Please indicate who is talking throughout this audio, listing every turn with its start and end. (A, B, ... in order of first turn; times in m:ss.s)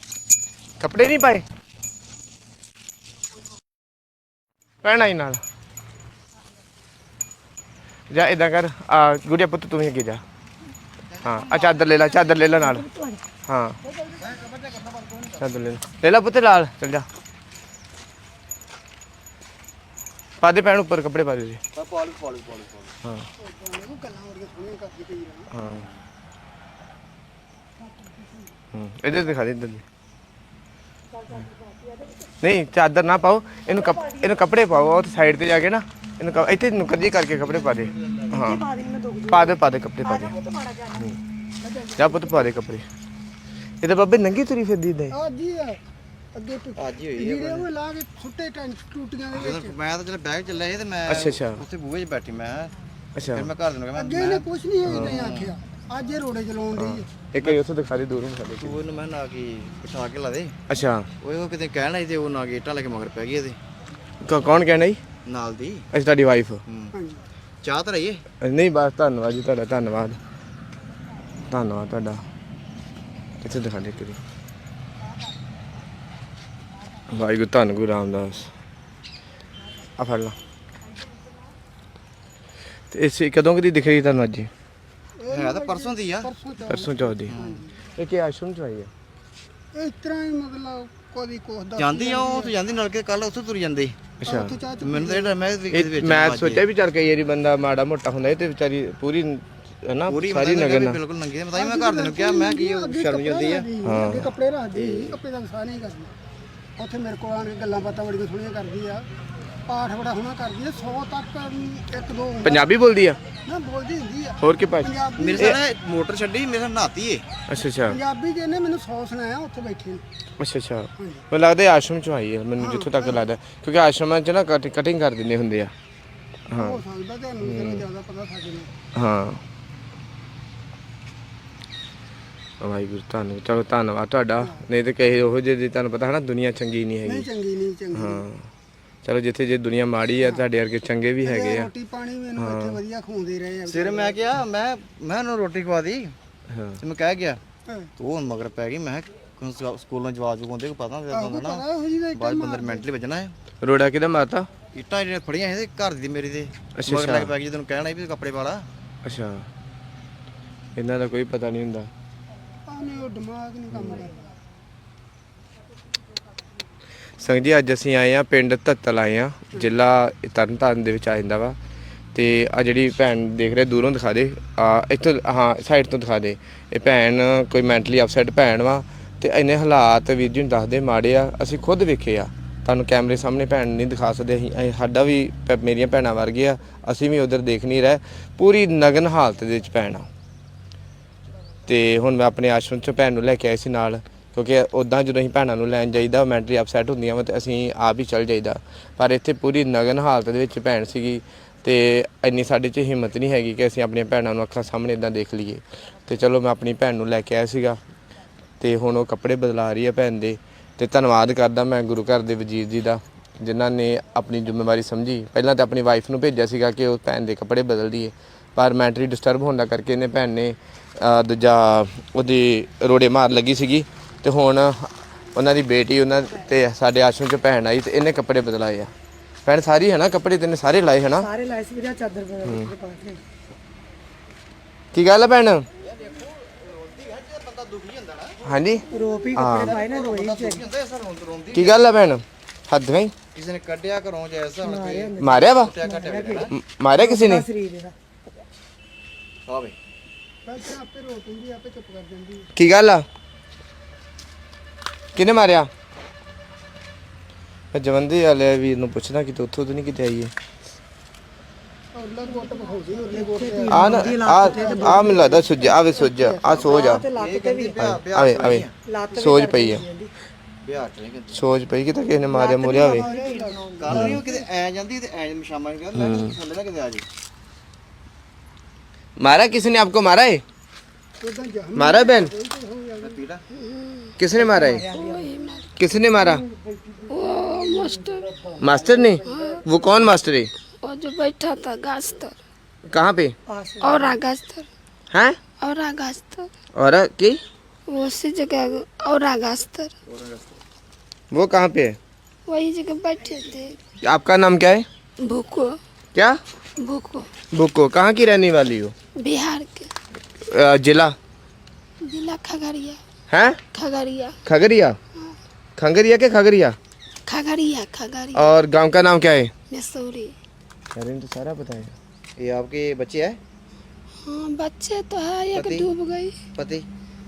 0:00.8-0:01.4 A
0:04.8-0:05.4 A
0:08.1-0:10.2 A
0:11.1-0:12.4 B
0:11.2-0:12.9 A
0:12.6-0:13.2 C
0:13.5-0:13.8 A
0:14.2-0:15.4 B
0:15.4-0:17.1 A
0:20.4-0:21.6 A
0:21.8-0:22.9 B
0:23.4-0:25.5 D
0:25.5-0:25.8 A
0:25.6-0:26.0 B
0:28.7-0:29.8 A
0:31.2-0:32.3 C
0:32.4-0:38.7 A
0:37.8-0:38.3 B
0:38.3-0:41.1 C
0:39.3-0:40.4 A
0:41.6-0:42.4 D
0:42.0-0:42.8 A
0:43.8-0:45.1 A
0:45.1-0:45.8 D
0:46.4-0:49.8 D
0:46.8-0:47.7 B
0:49.3-0:52.7 B
0:51.1-0:51.6 A
0:53.2-0:53.5 A
0:53.3-0:55.6 B
0:53.9-0:57.1 D
0:54.9-0:55.1 A
0:56.8-0:58.8 A
0:57.3-0:57.6 B
0:58.6-1:00.6 B
1:00.7-1:01.1 A
1:01.2-1:03.6 B
1:04.2-1:05.0 A
1:05.3-1:05.9 B
1:05.9-1:06.6 A
1:06.7-1:07.0 B
1:07.0-1:07.2 D
1:07.6-1:08.2 B
1:08.4-1:10.2 A
1:11.5-1:12.2 A
1:13.4-1:14.2 A
1:17.1-1:18.5 A
1:20.0-1:20.4 A
1:22.9-1:24.5 A
1:25.2-1:27.8 D
1:25.3-1:26.3 B
1:26.6-1:27.4 A
1:27.3-1:27.6 B
1:28.0-1:28.9 A
1:29.7-1:32.6 D
1:31.8-1:34.1 B
1:34.2-1:34.6 A
1:34.2-1:35.3 D
1:34.8-1:36.6 B
1:35.7-1:41.0 A
1:40.1-1:43.7 B
1:41.5-1:46.1 D
1:43.8-1:44.3 A
1:44.7-1:45.2 B
1:46.8-1:49.0 D
1:49.7-1:52.6 D
1:52.4-1:53.2 A
1:53.5-1:55.4 D
1:54.4-1:55.6 A
1:55.2-1:57.3 B
1:57.5-1:58.0 A
1:57.6-2:00.0 D
2:00.4-2:05.7 A
2:02.6-2:03.2 D
2:06.5-2:08.7 D
2:06.5-2:06.8 A
2:07.4-2:07.9 A
2:09.0-2:09.4 A
2:12.6-2:17.3 A
2:17.0-2:18.2 D
2:17.9-2:18.5 A
2:19.0-2:21.7 A
2:21.2-2:24.2 D
2:22.4-2:22.8 A
2:23.7-2:26.2 B
2:26.5-2:26.8 A
2:26.8-2:27.4 B
2:28.0-2:33.3 B
2:31.1-2:32.9 D
2:33.6-2:34.5 A
2:34.7-2:38.7 B
2:36.8-2:37.3 A
2:39.0-2:39.5 A
2:40.8-2:41.9 A
2:42.7-2:44.3 D
2:43.7-2:44.1 A
2:47.2-2:51.6 A
2:52.1-3:10.1 A
3:11.7-3:27.8 A
3:28.6-3:48.9 A
3:49.4-3:51.3 A
3:51.1-3:53.2 C
3:52.4-3:52.7 A
3:54.9-3:55.7 A
3:55.8-3:58.4 B
3:58.4-3:59.8 A
3:58.9-4:00.7 C
3:59.5-4:01.8 B
4:01.5-4:03.1 A
4:03.3-4:06.6 B
4:04.6-4:07.9 C
4:05.2-4:05.7 A
4:06.5-4:07.5 A
4:09.5-4:09.8 B
4:10.5-4:12.5 D
4:12.6-4:13.0 A
4:15.2-4:15.7 A
4:17.7-4:20.3 A
4:22.0-4:23.8 D
4:22.2-4:27.8 C
4:23.7-4:27.0 A
4:24.5-4:25.7 D
4:26.5-4:28.7 B
4:27.8-4:29.9 A
4:28.9-4:30.1 C
4:30.6-4:31.4 B
4:31.3-4:33.1 A
4:32.3-4:34.2 C
4:32.6-4:34.4 D
4:33.8-4:37.1 B
4:33.9-4:34.2 A
4:36.0-4:36.4 A
4:39.2-4:40.4 A
4:41.2-4:43.1 D
4:41.8-4:42.3 A
4:43.0-4:43.4 B
4:43.6-4:44.2 E
4:44.2-4:44.9 A
4:44.3-4:45.4 C
4:44.9-4:45.7 E
4:45.8-4:46.4 A
4:46.3-4:47.1 C
4:47.1-4:48.3 E
4:47.8-4:49.1 C
4:48.6-4:50.5 A
4:49.2-4:49.7 E
4:50.8-4:52.4 E
4:52.9-4:53.4 A
4:53.5-4:54.2 C
4:53.8-4:54.7 E
4:55.1-4:55.4 A
4:55.6-4:56.5 E
4:56.8-4:57.4 A
4:57.9-4:59.9 E
5:00.1-5:00.6 B
5:01.3-5:02.0 A
5:02.5-5:03.8 E
5:04.0-5:04.9 A
5:05.2-5:05.8 E
5:06.8-5:07.3 E
5:07.5-5:08.9 A
5:09.2-5:09.9 E
5:10.4-5:11.2 A
5:12.0-5:13.0 E
5:13.3-5:13.6 A
5:13.7-5:14.4 E
5:14.4-5:15.0 A
5:15.8-5:16.8 A
5:17.3-5:18.5 E
5:18.3-5:19.5 A
5:19.7-5:20.4 E
5:20.9-5:22.0 A
5:22.4-5:23.4 B
5:24.2-5:26.4 E
5:25.5-5:25.9 B
5:26.5-5:26.9 B